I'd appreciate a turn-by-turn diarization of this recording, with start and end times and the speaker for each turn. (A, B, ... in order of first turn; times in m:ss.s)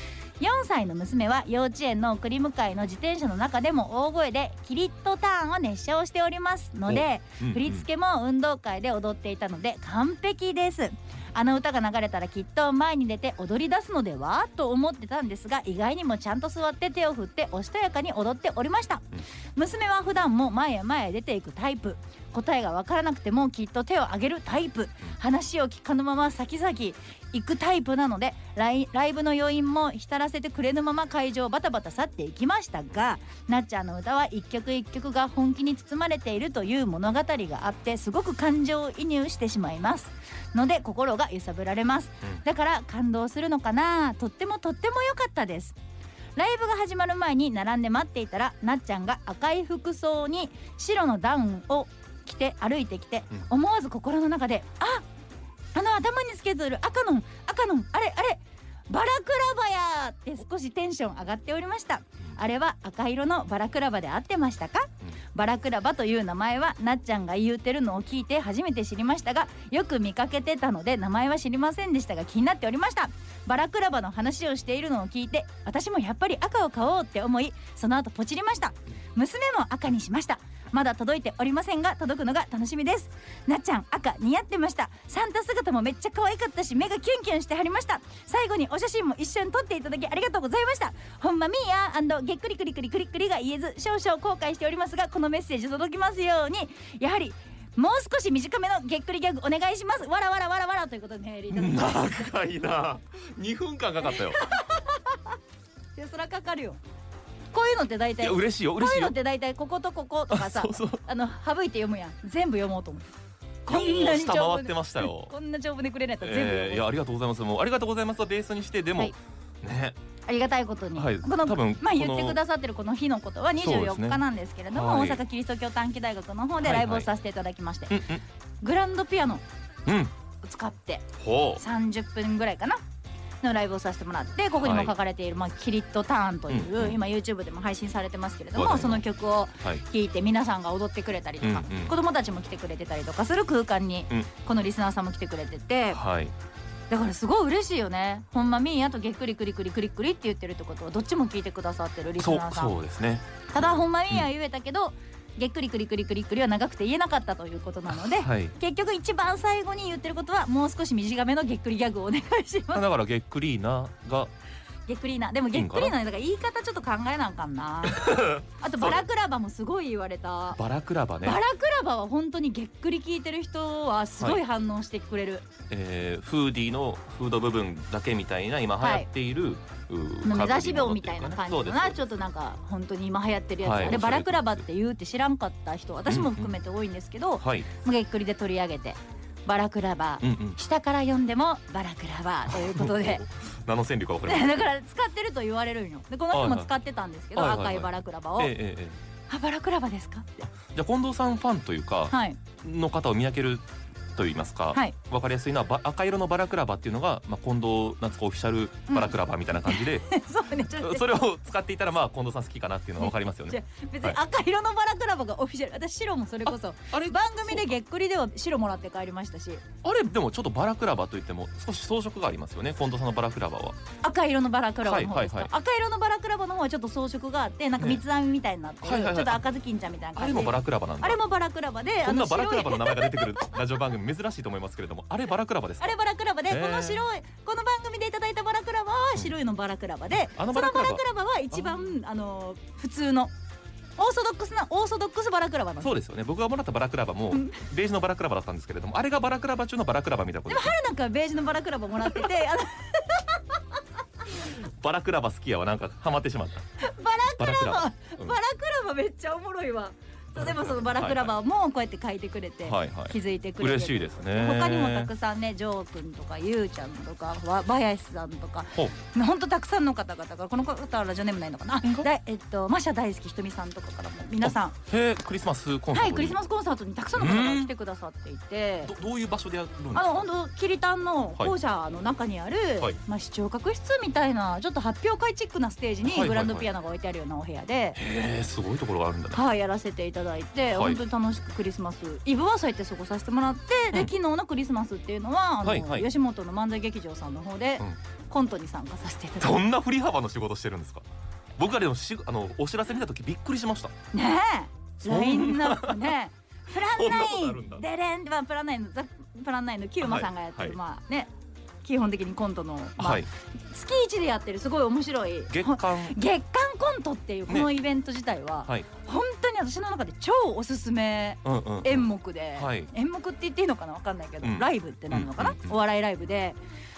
0:00.4-0:45.8 A
0:06.9-0:07.8 B
0:46.4-0:55.0 A
0:55.8-1:42.3 A
1:41.5-1:44.5 B
1:44.1-1:45.3 A
1:46.0-1:46.8 A
1:47.5-1:53.1 A
1:48.2-1:49.2 B
1:50.3-1:51.0 B
1:53.6-1:56.9 A
1:53.7-1:55.3 B
1:56.2-2:00.0 B
2:00.3-2:08.0 A
2:01.0-2:02.4 B
2:03.6-2:05.2 B
2:06.6-2:07.1 B
2:07.9-2:08.2 B
2:08.6-2:09.4 A
2:09.9-2:10.1 B
2:10.4-2:12.8 A
2:11.2-2:11.6 B
2:13.4-2:26.0 A
2:14.6-2:14.9 B
2:16.5-2:17.0 B
2:18.6-2:19.0 B
2:21.4-2:22.0 B
2:25.9-2:26.3 B
2:26.9-2:32.7 A
2:32.2-2:34.3 B
2:33.5-2:42.8 A
2:37.9-2:38.6 B
2:42.7-2:44.3 B
2:44.9-2:50.6 A
2:45.5-2:46.0 B
2:47.8-2:49.0 B
2:50.5-2:51.4 B
2:51.2-2:55.5 A
2:55.7-3:02.1 B
2:58.8-2:59.1 A
3:00.2-3:13.2 A
3:03.6-3:04.7 B
3:06.1-3:06.6 B
3:07.4-3:07.7 B
3:10.2-3:10.6 B
3:12.5-3:14.7 B
3:14.3-3:18.6 A
3:16.3-3:16.7 B
3:17.3-3:19.0 B
3:19.3-3:20.5 A
3:20.5-3:34.2 B
3:22.1-3:22.4 A
3:28.9-3:29.1 A
3:29.6-3:31.0 A
3:33.0-3:39.6 A
3:36.5-3:37.8 B
3:39.8-3:43.8 B
3:44.0-3:53.5 A
3:44.8-3:45.5 B
3:48.8-3:49.4 B
3:50.2-3:51.2 B
3:52.0-3:56.0 B
3:55.8-4:03.3 A
3:56.5-3:57.0 B
4:00.4-4:01.9 B
4:04.0-4:05.9 A
4:05.8-4:10.8 B
4:07.3-4:07.6 A
4:10.5-4:13.6 A
4:14.3-4:16.7 B
4:16.8-4:34.8 A
4:17.4-4:18.4 B
4:20.4-4:21.3 B
4:22.6-4:25.1 B
4:34.4-4:36.4 B
4:35.9-4:39.0 A
4:37.2-4:37.7 B
4:38.9-4:40.3 B
4:39.9-4:48.0 A
4:46.0-4:46.7 B
4:48.0-4:49.4 B
4:49.3-4:59.6 A
4:50.7-4:51.0 B
4:55.6-4:56.1 B
4:59.4-5:01.0 B
5:01.6-5:03.9 B
5:04.1-5:11.3 A
5:05.0-5:06.2 B
5:06.8-5:07.8 B
5:10.0-5:10.8 B
5:11.8-5:26.6 A
5:13.0-5:13.3 B
5:15.5-5:16.2 B
5:21.4-5:22.9 B
5:24.4-5:25.8 B